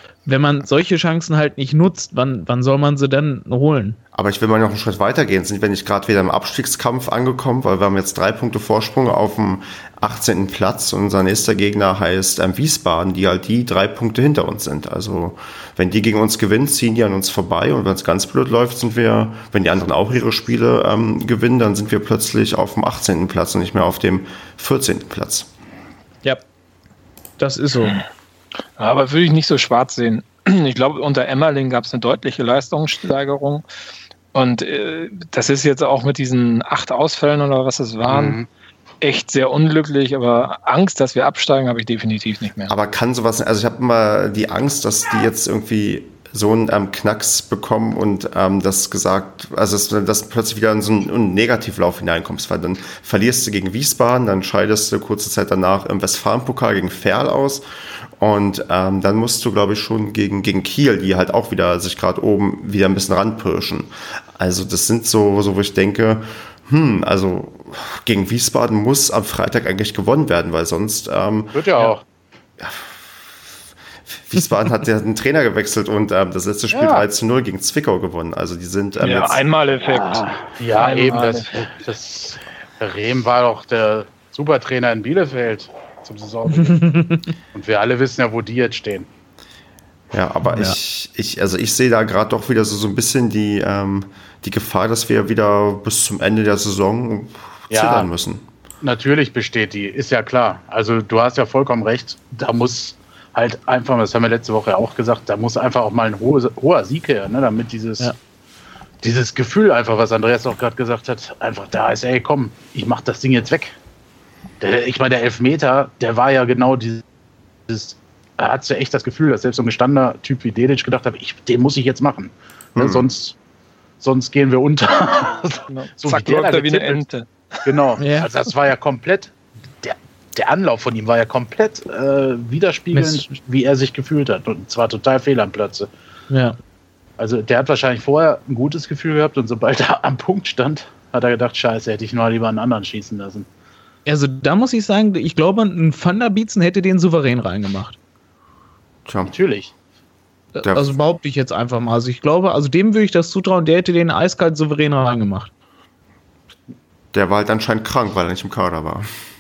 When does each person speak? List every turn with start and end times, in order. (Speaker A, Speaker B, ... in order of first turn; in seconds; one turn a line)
Speaker A: 0.3-4.0
Speaker B: 4.1-25.5
Speaker A: 27.4-28.0
Speaker C: 28.8-33.6
Speaker C: 34.3-38.4
Speaker D: 38.0-38.5
Speaker C: 39.0-42.7
Speaker B: 42.7-57.6
Speaker B: 58.2-71.6
Speaker D: 71.5-72.0
Speaker B: 72.6-73.3
Speaker B: 74.1-79.4
Speaker D: 76.7-77.0
Speaker C: 79.0-81.6
Speaker D: 79.9-87.0
Speaker A: 80.8-81.2
Speaker A: 86.7-87.3
Speaker D: 87.5-89.1
Speaker B: 90.1-98.4
Speaker A: 90.5-90.8
Speaker D: 97.7-98.1
Speaker D: 98.8-108.1
Speaker D: 109.0-113.8
Speaker D: 114.6-117.0
Speaker D: 117.7-123.4
Speaker B: 122.8-123.1
Speaker D: 124.0-127.0
Speaker C: 125.7-127.8
Speaker D: 127.7-135.9
Speaker A: 128.0-128.3
Speaker A: 132.9-133.3
Speaker A: 136.3-136.6
Speaker D: 137.2-143.5
Speaker A: 144.1-148.0
Speaker B: 149.1-149.3
Speaker D: 149.3-149.7
Speaker A: 150.6-155.5
Speaker B: 150.6-150.9
Speaker B: 157.1-159.1